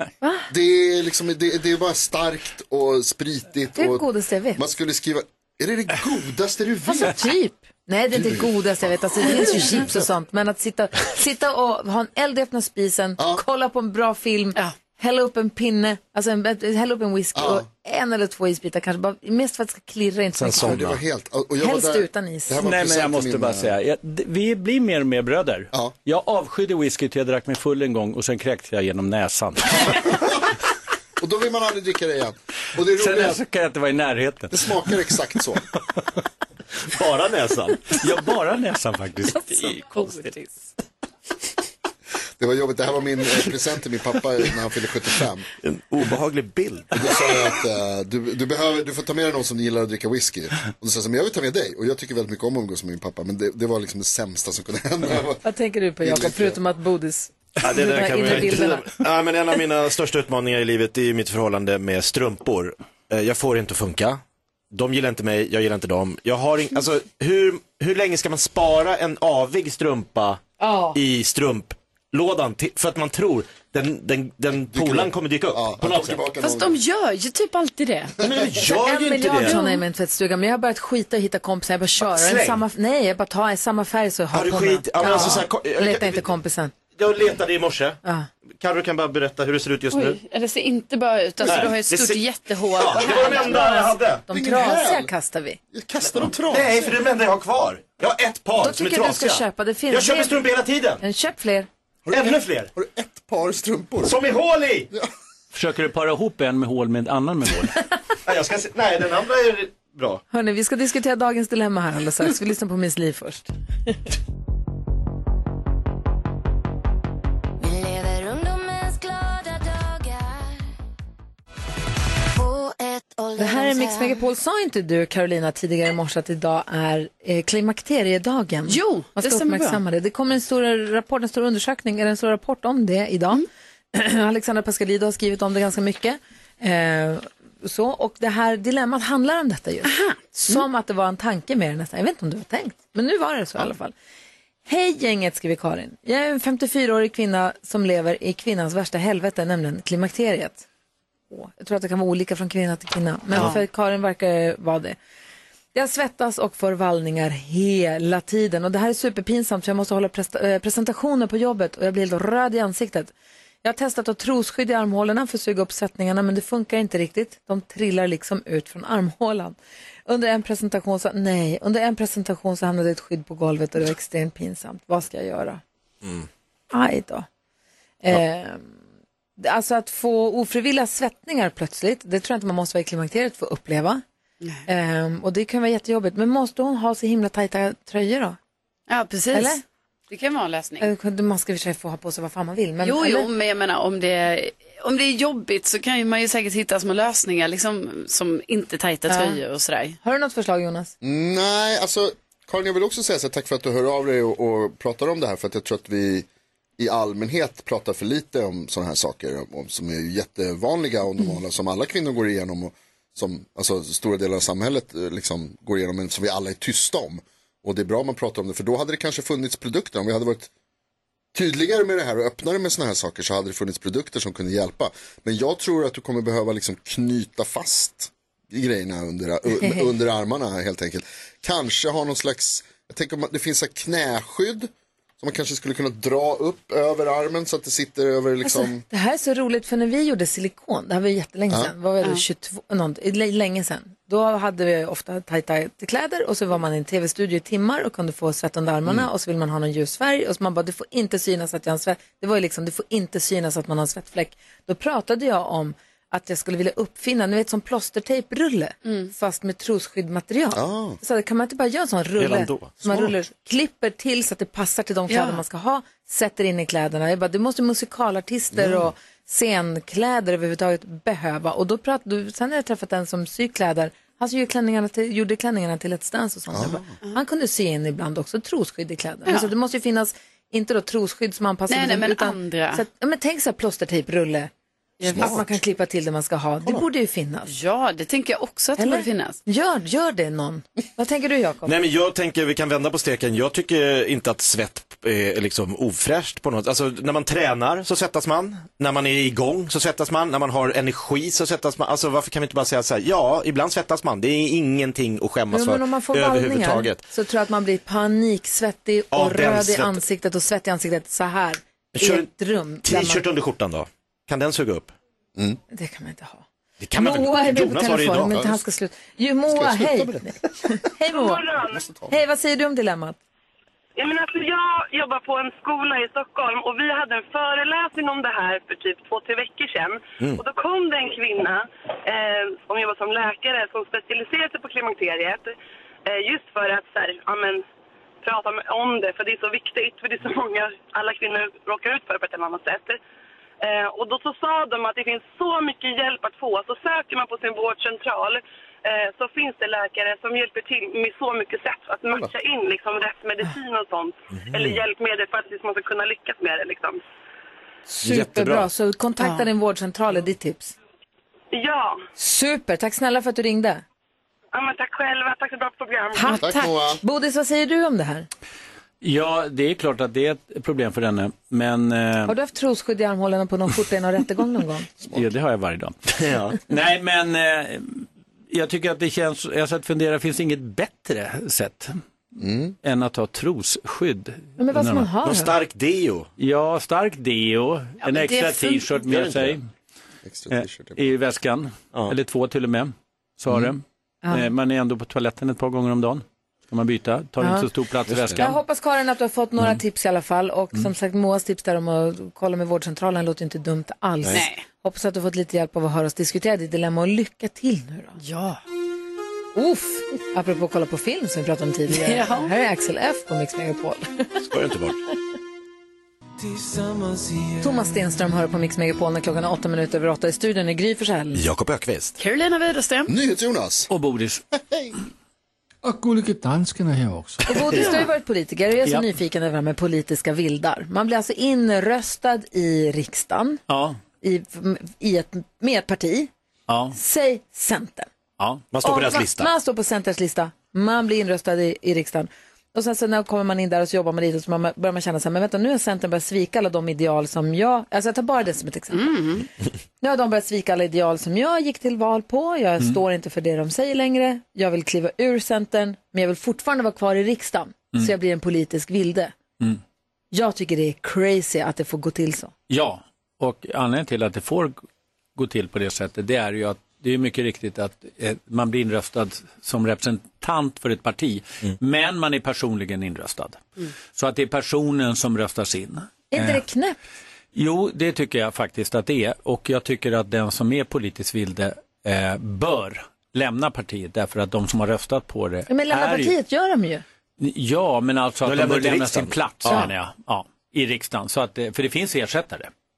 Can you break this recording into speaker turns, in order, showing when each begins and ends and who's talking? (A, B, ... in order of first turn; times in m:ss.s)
0:00.2-0:00.5 A
0:00.5-0:07.2 B
0:03.8-0:04.6 A
0:06.8-0:20.8 A
0:08.1-0:08.5 B
0:09.6-0:09.8 B
0:13.2-0:13.4 B
0:17.4-0:17.7 B
0:20.4-0:23.7 B
0:20.4-0:21.0 C
0:21.6-0:22.6 A
0:22.6-0:30.0 D
0:31.2-0:33.4 B
0:33.0-0:35.0 D
0:34.5-0:35.6 B
0:36.9-0:37.9 C
0:37.9-0:39.9 D
0:39.3-0:40.7 E
0:42.4-0:45.5 B
0:45.6-0:47.4 C
0:46.9-0:55.4 B
0:55.4-0:58.9 A
0:56.0-0:56.6 B
0:57.6-1:10.4 C
1:10.6-1:11.0 A
1:10.9-1:16.2 C
1:14.7-1:16.8 B
1:16.4-1:18.2 E
1:18.2-1:18.5 B
1:18.2-1:19.6 C
1:18.6-1:26.7 A
1:19.4-1:19.8 E
1:22.0-1:22.6 C
1:24.3-1:26.3 C
1:27.0-1:28.0 C
1:28.6-1:30.2 C
1:29.9-1:33.8 E
1:31.4-1:34.2 C
1:32.9-1:35.6 A
1:34.3-1:35.1 B
1:35.7-1:37.0 B
1:36.1-1:41.0 C
1:38.6-1:40.5 A
1:41.0-1:41.7 A
1:42.1-1:44.2 B
1:42.1-1:42.7 C
1:44.0-1:44.9 C
1:45.5-1:47.8 D
1:48.2-1:50.2 C
1:50.3-1:53.5 A
1:57.6-2:00.7 F
2:02.3-2:04.2 F
2:03.4-2:23.9 A
2:08.7-2:09.8 E
2:19.8-2:20.6 E
2:24.7-2:30.6 A
2:31.3-2:35.0 A
2:35.7-2:55.6 A
2:56.7-2:57.3 A
2:58.0-2:58.7 A
2:59.4-3:04.0 A
3:04.7-3:08.4 A
3:08.9-3:10.9 E
3:09.3-3:09.6 A
3:10.8-3:13.3 A
3:12.8-3:20.0 E
3:19.1-3:19.4 A
3:20.0-3:20.9 A
3:21.0-3:26.3 B
3:26.8-3:40.5 B
3:41.3-3:58.8 B
3:58.4-4:44.5 A
4:20.5-4:21.0 B
4:22.2-4:23.1 C
4:25.1-4:25.4 E
4:28.5-4:28.9 B
4:36.5-4:36.9 B
4:41.7-4:42.8 E
4:45.0-4:45.3 E
4:45.0-4:47.5 A
4:45.1-4:45.5 B
4:47.5-4:49.4 E
4:48.8-4:51.7 A
4:51.6-5:07.0 C
5:05.5-5:13.2 A
5:09.1-5:10.0 C
5:12.0-5:12.3 C
5:12.8-5:14.9 C
5:15.7-5:21.4 A
5:16.8-5:18.5 C
5:19.5-5:20.4 B
5:21.1-5:21.8 G
5:21.6-5:22.1 B
5:22.1-5:23.2 A
5:24.0-5:35.5 G
5:36.1-5:37.6 G
5:38.2-5:43.0 G
5:43.6-5:57.0 G
5:54.3-5:54.8 C
5:57.9-6:00.8 A
5:58.0-5:58.7 C
5:59.2-5:59.5 E
6:01.5-6:02.0 G
6:02.2-6:03.8 A
6:04.5-6:06.4 G
6:06.2-6:08.3 A
6:06.3-6:06.8 E
6:06.4-6:07.0 B
6:09.0-6:12.3 D
6:12.3-6:14.9 A
6:15.1-6:16.0 D
6:16.2-6:16.6 C
6:16.7-6:22.0 D
6:22.4-6:22.7 B
6:22.8-6:25.1 D
6:24.6-6:25.6 A
6:25.2-6:26.3 C
6:26.4-6:29.7 D
6:28.0-6:29.0 E
6:29.1-6:29.6 C
6:30.2-6:31.0 B
6:30.5-6:38.6 D
6:37.4-6:37.7 A
6:38.1-6:38.4 C
6:38.4-6:48.2 A
6:44.3-6:44.6 E
6:48.2-6:48.6 E
6:49.6-6:54.4 A
6:51.9-6:52.5 E
6:54.4-6:55.0 C
6:56.9-6:57.2 H
6:57.6-7:01.4 A
7:01.4-7:02.2 C
7:02.2-7:03.1 E
7:03.1-7:03.9 B
7:03.9-7:04.4 D
7:04.6-7:05.0 B
7:05.8-7:07.5 H
7:07.5-7:13.6 A
7:13.7-7:14.0 D
7:14.2-7:16.3 A
7:16.7-7:17.0 D
7:16.9-7:18.1 A
7:18.4-7:18.6 D
7:18.7-7:19.5 C
7:18.8-7:29.4 A
7:28.9-7:29.5 E
7:30.0-7:39.4 A
7:40.3-7:42.5 A
7:42.7-7:44.8 D
7:45.4-7:56.6 D
7:56.3-7:57.0 A
7:57.5-8:06.3 D
8:05.7-8:07.0 A
8:07.4-8:12.7 D
8:08.4-8:09.9 C